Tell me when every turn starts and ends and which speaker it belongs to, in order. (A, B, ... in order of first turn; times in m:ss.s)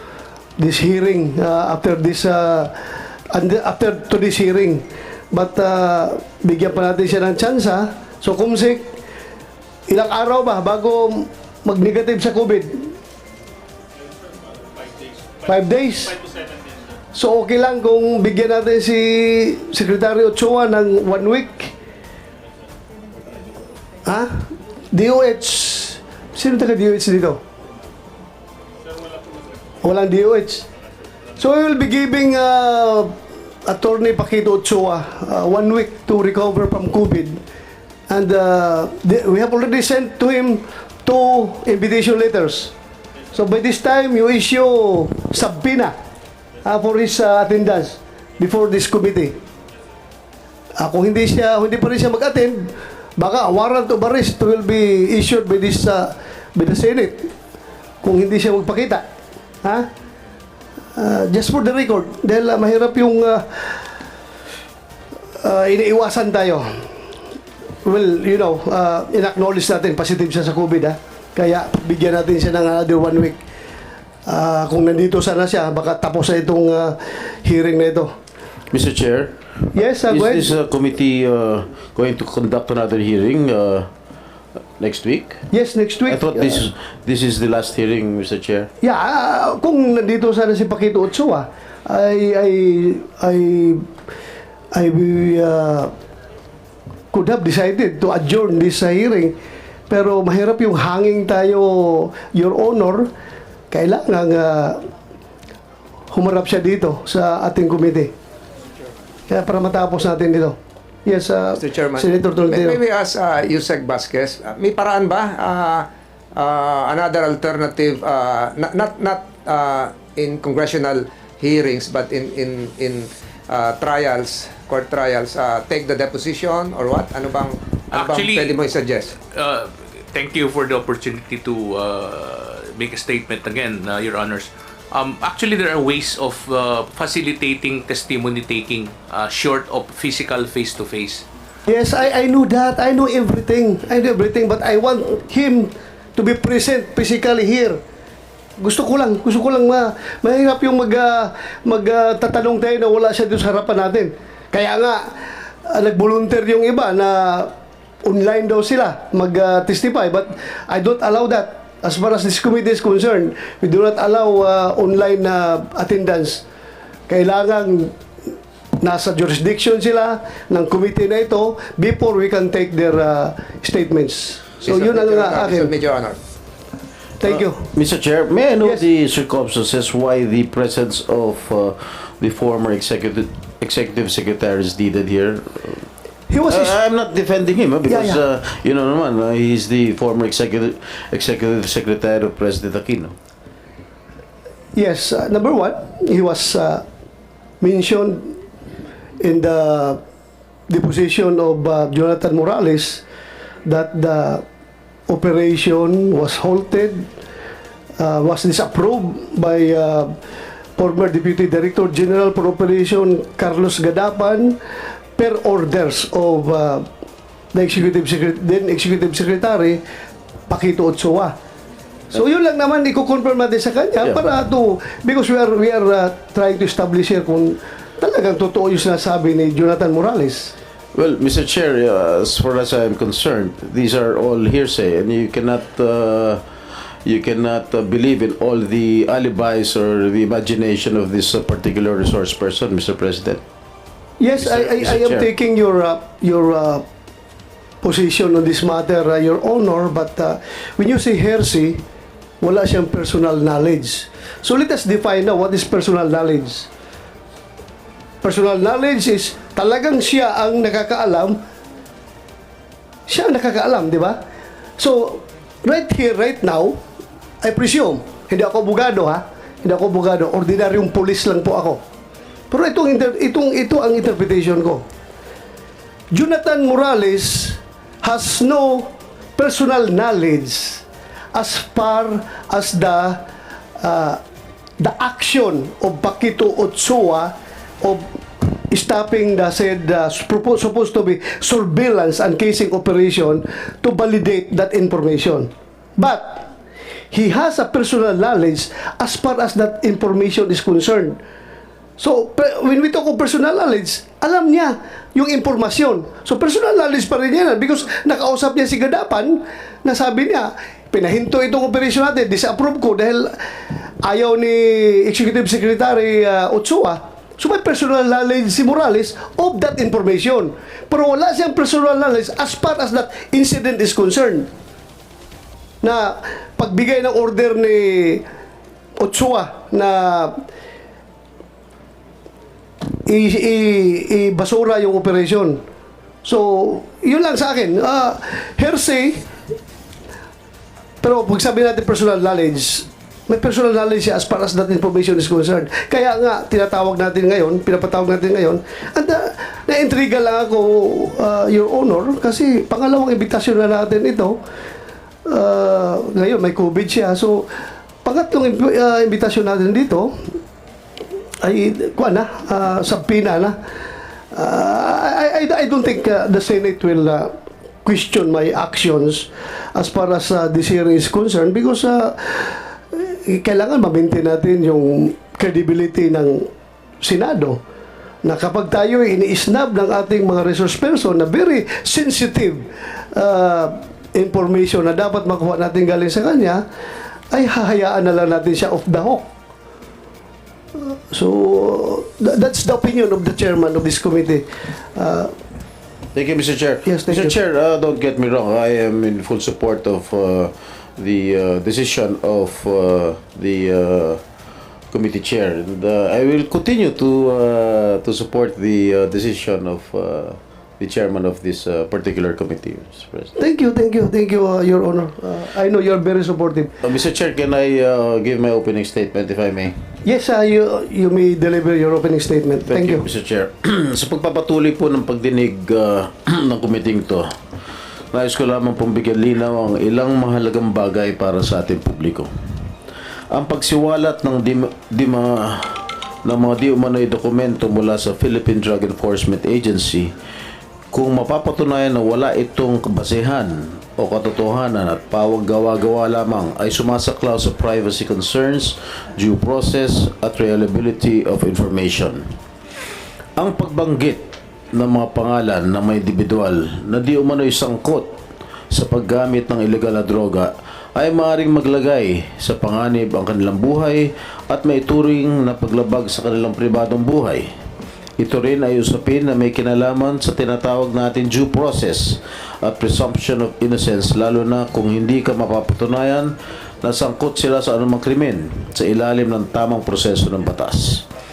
0:00.6-0:02.8 A
0:03.3-0:08.9 A
0:09.9-0:12.9 A
0:15.4-0:16.2 A
0:17.1-0:21.7 A
0:24.0-0:27.4 A
0:29.8-0:30.6 A
0:31.4-0:33.1 A
0:33.6-0:37.4 A
0:38.1-0:42.7 A
0:43.3-0:45.9 A
0:46.6-0:49.3 A
0:50.8-0:57.3 A
0:58.0-0:59.0 A
1:01.0-1:03.8 A
1:05.4-1:06.8 A
1:07.8-1:13.4 A
1:14.3-1:18.1 A
1:18.7-1:19.4 B
1:19.7-1:20.5 A
1:19.9-1:23.9 B
1:24.8-1:25.4 B
1:25.5-1:26.7 A
1:26.1-1:28.7 B
1:28.8-1:33.8 A
1:34.7-1:35.9 A
1:37.1-1:39.3 A
1:39.9-1:43.1 A
1:43.7-1:44.8 A
1:46.1-1:48.1 A
1:49.3-1:52.8 A
1:51.6-2:09.2 C
2:08.0-2:08.5 D
2:09.3-2:21.2 D
2:21.6-2:27.8 A
2:28.6-2:35.0 A
2:35.6-2:37.5 A
2:38.0-2:46.4 A
2:47.1-2:47.9 A
2:48.8-2:55.7 A
2:54.6-2:56.2 C
2:57.2-2:57.7 A
2:57.2-3:05.8 B
3:06.3-3:06.7 A
3:06.5-3:13.1 B
3:07.9-3:08.2 A
3:14.7-3:16.8 A
3:17.6-3:18.4 A
3:19.2-3:20.0 A
3:20.7-3:23.0 A
3:23.6-3:24.4 A
3:25.1-3:27.0 A
3:28.0-3:30.1 A
3:30.8-3:34.5 A
3:35.2-3:36.8 A
3:37.5-3:39.8 A
3:40.5-3:41.3 A
3:42.1-3:50.5 A
3:50.9-3:56.4 B
3:57.0-4:03.4 B
4:04.2-4:06.8 A
4:04.4-4:05.3 B
4:07.8-4:11.8 A
4:12.4-4:16.7 A
4:18.2-4:21.4 A
4:23.1-4:24.2 A
4:24.8-4:26.8 A
4:27.4-4:31.8 A
4:32.5-4:34.8 A
4:36.1-4:43.2 A
4:43.8-4:44.2 A
4:44.8-4:47.3 A
4:47.8-4:48.2 A
4:48.7-4:56.5 A
4:57.1-5:01.2 A
5:02.0-5:13.3 A
5:14.0-5:24.5 A
5:25.8-5:28.2 A
5:29.0-5:30.3 A
5:33.0-5:35.6 A
5:36.2-5:39.2 A
5:41.0-5:54.4 A
5:55.2-5:57.4 A
5:58.0-6:00.1 A
6:01.4-6:03.5 A
6:04.3-6:07.3 A
6:07.8-6:16.5 A
6:17.0-6:17.6 A
6:18.2-6:26.6 A
6:27.3-6:29.3 A
6:30.8-6:35.3 A
6:36.1-6:44.2 B
6:36.8-6:37.3 A
6:44.9-6:53.3 B
6:53.4-6:56.7 A
6:56.8-6:59.7 B
7:00.0-7:03.0 A
7:02.7-7:07.2 B
7:08.1-7:12.3 B
7:13.3-7:20.1 B
7:20.9-7:32.2 B
7:33.4-7:38.1 B
7:38.7-7:47.4 B
7:48.2-8:01.0 B